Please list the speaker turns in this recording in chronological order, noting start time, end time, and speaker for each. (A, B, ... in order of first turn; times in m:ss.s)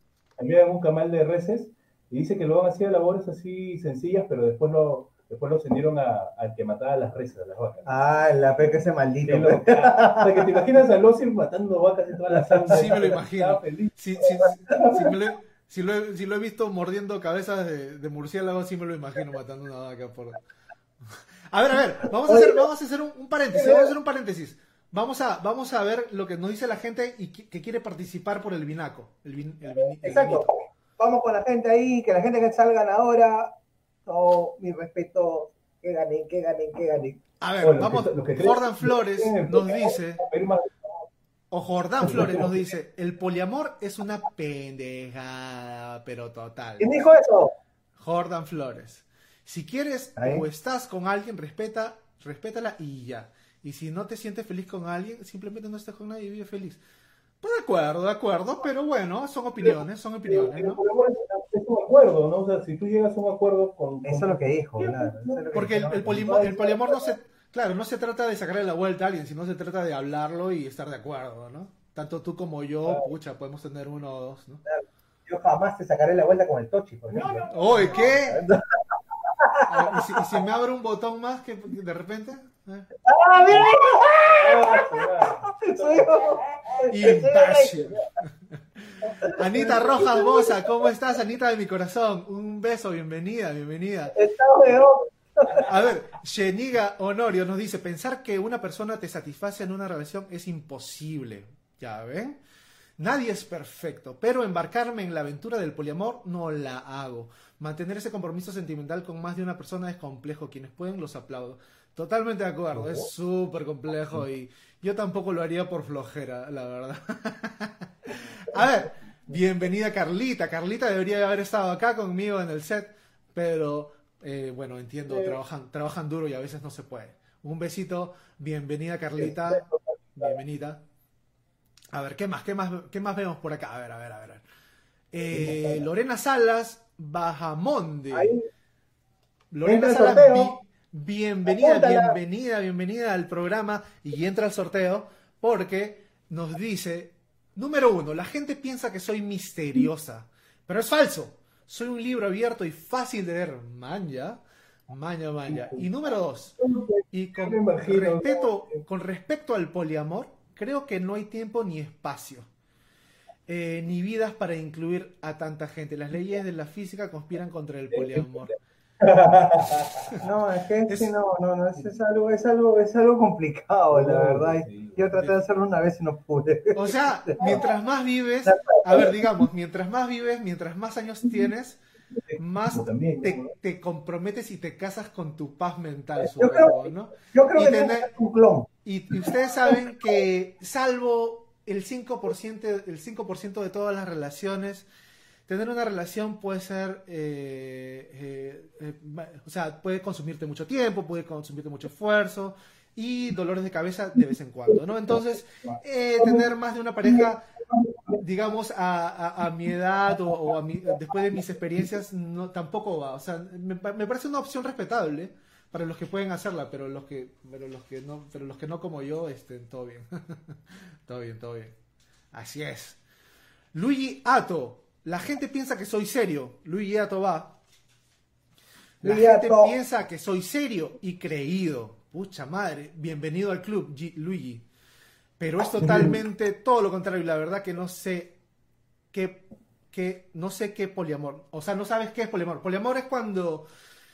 0:00.4-0:07.9 A
0:07.8-0:10.5 B
0:09.2-0:13.9 A
0:12.7-0:20.4 C
0:21.5-0:30.5 C
0:22.3-0:22.6 B
0:23.5-0:23.9 B
0:30.0-0:37.2 B
0:37.4-0:40.2 C
0:37.6-0:40.7 A
0:41.5-0:47.0 C
0:42.0-0:42.5 A
0:46.8-0:47.5 B
0:48.0-0:56.8 C
0:50.2-0:50.4 B
0:57.4-1:00.8 C
1:00.3-1:06.7 A
1:04.0-1:06.6 B
1:05.5-1:14.6 C
1:14.7-1:18.7 B
1:17.1-1:18.0 A
1:17.5-1:18.4 C
1:19.4-1:20.2 B
1:19.7-1:22.9 C
1:23.0-1:24.9 B
1:24.4-1:26.2 A
1:25.6-1:28.0 B
1:26.9-1:28.3 C
1:28.8-1:34.1 C
1:29.2-1:30.6 B
1:34.1-1:35.6 B
1:35.4-1:35.8 A
1:35.6-1:42.4 C
1:43.0-2:10.8 C
2:09.2-2:09.8 A
2:11.9-2:14.4 C
2:15.1-2:18.3 C
2:15.3-2:15.8 A
2:18.1-2:18.4 B
2:19.5-2:36.6 C
2:19.6-2:20.6 B
2:21.5-2:22.2 B
2:35.5-2:35.9 A
2:36.6-2:38.8 A
2:37.1-2:42.5 C
2:43.5-2:48.6 C
2:47.9-2:48.5 A
2:49.0-2:50.2 A
2:50.2-2:57.6 B
2:50.9-2:51.1 C
2:53.9-2:55.1 A
2:56.7-3:01.8 C
2:58.5-2:59.2 B
3:02.3-3:03.5 A
3:02.4-3:08.1 C
3:06.3-3:08.7 B
3:08.8-3:14.9 C
3:15.5-3:27.4 C
3:27.7-3:28.2 B
3:28.2-3:41.7 C
3:42.3-3:43.0 C
3:43.7-3:47.6 C
3:49.0-3:54.6 C
3:49.0-3:49.7 B
3:55.4-3:58.3 C
3:55.8-3:56.2 A
3:59.1-4:03.7 C